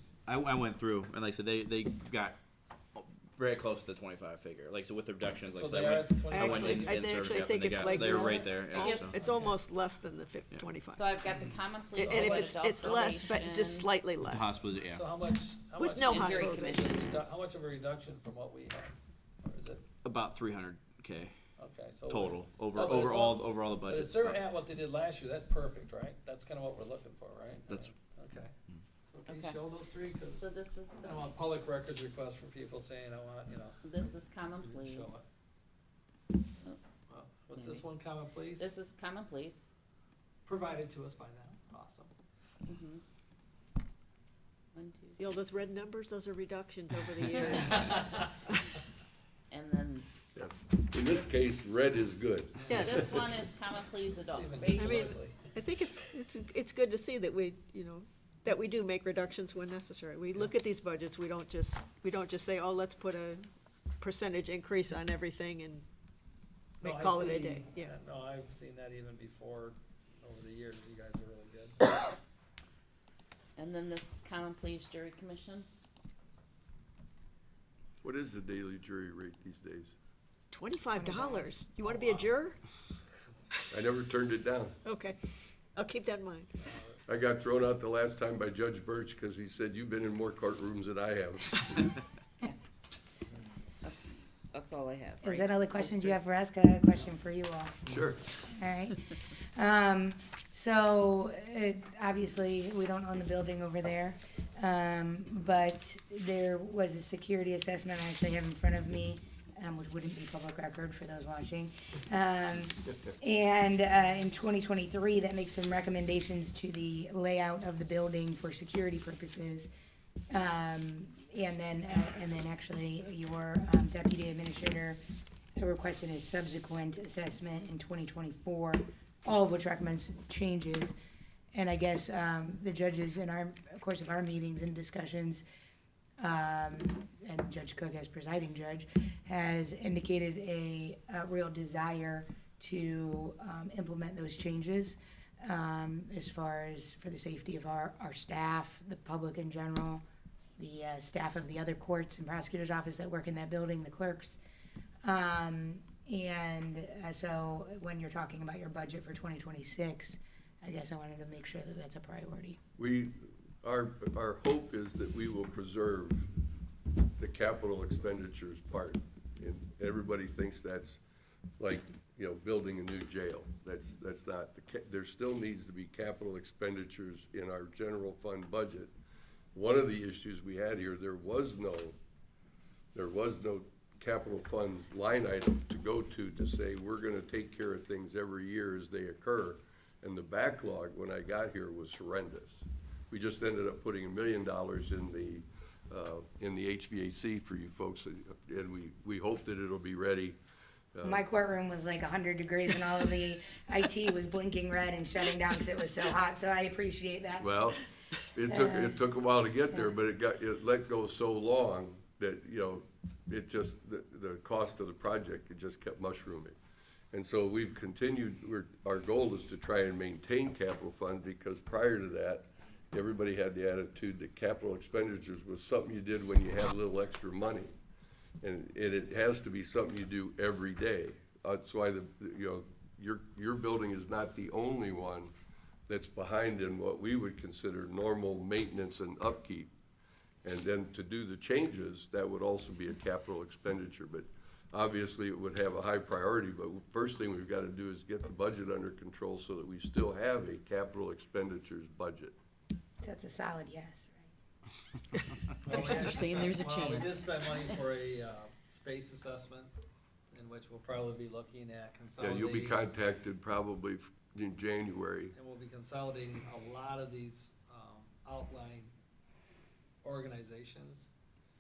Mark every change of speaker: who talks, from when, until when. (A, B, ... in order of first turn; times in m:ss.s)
0:00.2-0:02.4 A
0:02.9-0:09.2 A
0:05.5-0:09.5 B
0:06.3-0:11.0 C
0:08.7-0:09.1 D
0:10.9-0:13.9 D
0:11.9-0:12.6 B
0:11.9-0:14.5 C
0:14.2-0:15.0 A
0:14.8-0:19.8 B
0:15.8-0:16.8 C
0:15.9-0:17.0 D
0:20.0-0:21.3 A
0:21.6-0:28.5 B
0:22.1-0:24.4 A
0:29.1-0:30.4 B
0:29.3-0:29.6 D
0:30.4-0:31.3 D
0:31.0-0:33.9 B
0:33.8-0:35.1 D
0:34.6-0:35.3 B
0:37.1-0:38.7 B
0:37.5-0:37.8 D
0:38.6-0:39.6 D
0:40.4-0:42.1 B
0:42.6-0:43.0 D
0:44.7-0:45.2 D
0:45.2-0:48.7 C
0:47.3-0:48.1 D
0:47.7-0:48.2 B
0:49.5-0:50.1 D
0:50.3-0:53.2 E
0:52.6-0:53.0 B
0:52.7-0:53.2 C
0:52.7-0:55.2 D
0:54.2-0:55.4 B
0:54.8-1:03.5 C
1:04.0-1:05.8 C
1:06.8-1:07.9 C
1:06.8-1:11.8 B
1:13.6-1:15.7 D
1:18.0-1:19.9 E
1:20.5-1:22.6 C
1:21.0-1:21.3 D
1:21.8-1:22.3 B
1:23.7-1:24.8 E
1:24.8-1:25.2 C
1:25.7-1:26.5 C
1:26.6-1:27.0 B
1:27.1-1:31.9 E
1:33.8-1:36.2 D
1:35.2-1:37.8 F
1:37.9-1:38.2 E
1:38.5-1:59.7 F
2:00.3-2:05.0 F
2:05.6-2:10.9 F
2:11.5-2:15.4 F
2:16.2-2:30.0 F
2:30.6-2:34.4 F
2:35.0-2:42.6 F
2:42.8-2:46.3 E
2:47.2-2:51.0 E
2:51.6-2:58.9 E
2:59.5-3:02.0 E
3:02.9-3:20.4 E
3:20.9-3:21.2 E
3:21.0-3:27.7 F
3:27.4-3:27.8 E
3:28.3-3:36.5 E
3:28.5-3:29.0 F
3:37.1-3:47.7 E
3:48.4-3:55.3 E
3:55.9-3:59.7 E
4:00.4-4:12.3 E
4:13.0-4:14.3 F
4:15.6-4:19.7 B
4:15.7-4:17.2 D
4:20.3-4:22.8 B
4:22.2-4:25.3 E
4:25.3-4:28.9 B
4:30.0-4:31.1 B